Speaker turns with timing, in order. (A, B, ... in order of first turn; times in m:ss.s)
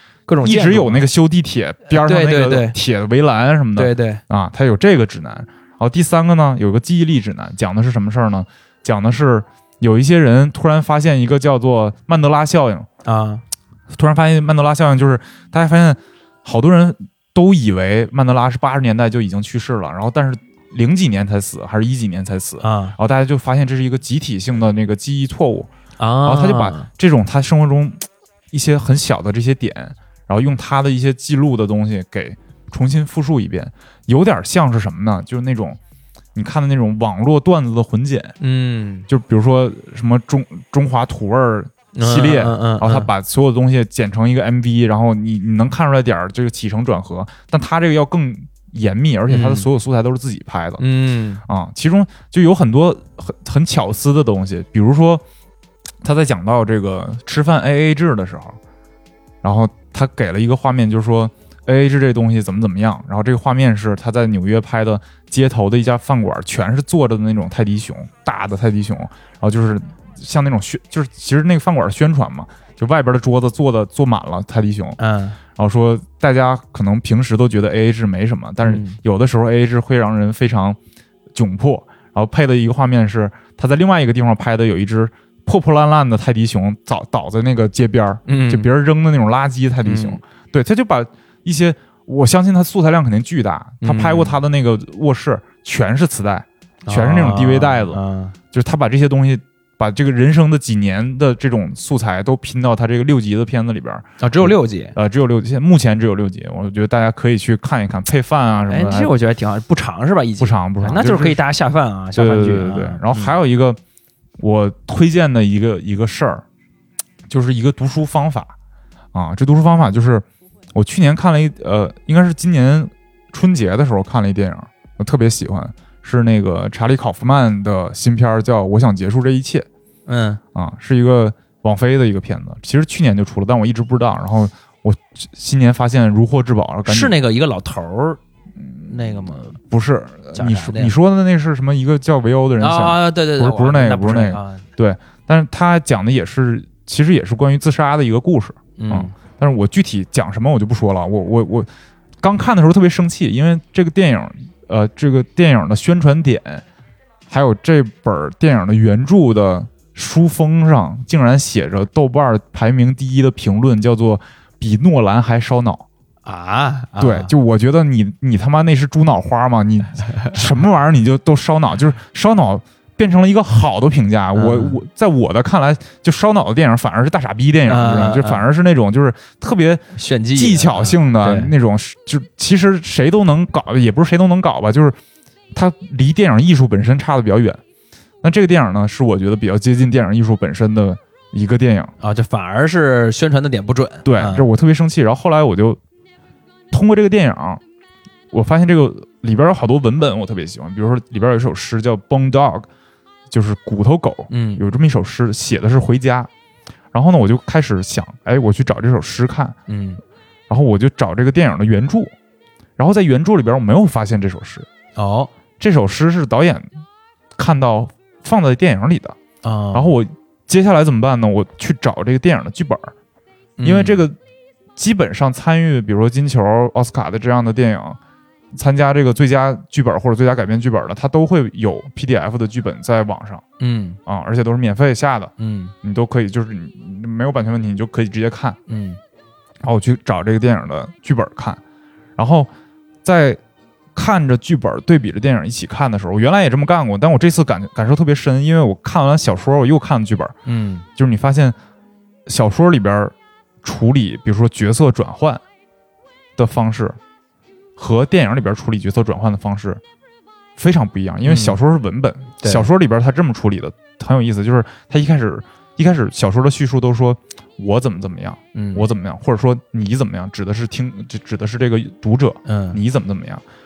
0:00.3-0:01.1 A
0:00.4-0:12.9 B
0:01.9-0:02.8 A
0:03.8-0:04.2 A
0:13.0-0:13.4 A
0:13.9-0:25.7 B
0:22.6-0:22.9 A
0:26.0-0:26.9 A
0:26.2-0:35.8 B
0:36.3-0:38.3 B
0:38.4-0:39.1 A
0:39.1-0:50.8 B
0:41.9-0:43.1 A
0:49.3-0:49.7 A
0:50.8-0:51.4 A
0:51.5-0:55.2 B
0:56.0-0:58.6 B
0:59.4-1:15.0 B
1:15.0-1:15.4 A
1:15.6-1:20.8 B
1:18.6-1:19.0 A
1:21.3-1:38.0 B
1:28.2-1:28.7 A
1:29.8-1:30.2 A
1:33.8-1:34.4 A
1:36.8-1:38.3 A
1:38.5-1:49.1 B
1:44.2-1:44.9 A
1:48.7-1:53.4 A
1:50.4-1:51.4 B
1:52.1-1:53.8 B
1:54.4-1:56.4 B
1:57.3-1:58.5 B
1:59.1-2:09.7 B
2:10.1-2:10.4 A
2:10.5-2:17.2 B
2:16.8-2:18.2 A
2:18.6-2:31.7 B
2:18.9-2:19.6 A
2:20.3-2:20.9 A
2:22.6-2:24.6 A
2:28.8-2:29.1 A
2:32.2-2:36.6 B
2:37.3-2:45.8 B
2:46.2-2:47.3 A
2:47.0-3:05.0 B
2:54.3-2:54.8 A
2:57.7-2:58.4 A
2:59.9-3:01.5 A
3:05.5-3:07.6 B
3:08.2-3:11.9 B
3:12.0-3:14.5 A
3:14.0-3:15.8 B
3:16.7-3:17.6 B
3:18.3-3:22.7 B
3:23.3-3:26.3 B
3:24.3-3:24.6 A
3:26.9-3:29.6 B
3:29.7-3:30.0 A
3:30.5-3:32.1 B
3:32.8-3:34.7 B
3:35.0-3:35.3 A
3:35.6-3:36.7 B
3:37.4-3:39.2 B
3:39.4-3:39.9 A
3:39.7-3:42.9 B
3:43.6-3:44.0 A
3:43.6-3:44.2 B
3:44.8-3:48.0 B
3:48.5-3:53.4 B
3:53.6-3:54.0 A
3:54.0-3:58.6 B
3:55.4-3:55.7 A
3:58.7-3:59.0 A
3:59.6-4:01.6 B
4:02.2-4:02.5 B
4:03.0-4:03.4 B
4:03.9-4:10.3 B
4:10.4-4:10.8 A
4:11.0-4:11.6 B
4:12.3-4:15.4 B
4:16.4-4:17.0 B
4:17.8-4:19.8 B
4:20.6-4:33.4 B
4:21.2-4:21.6 A
4:22.4-4:22.7 A
4:28.5-4:28.9 A
4:32.4-4:32.8 A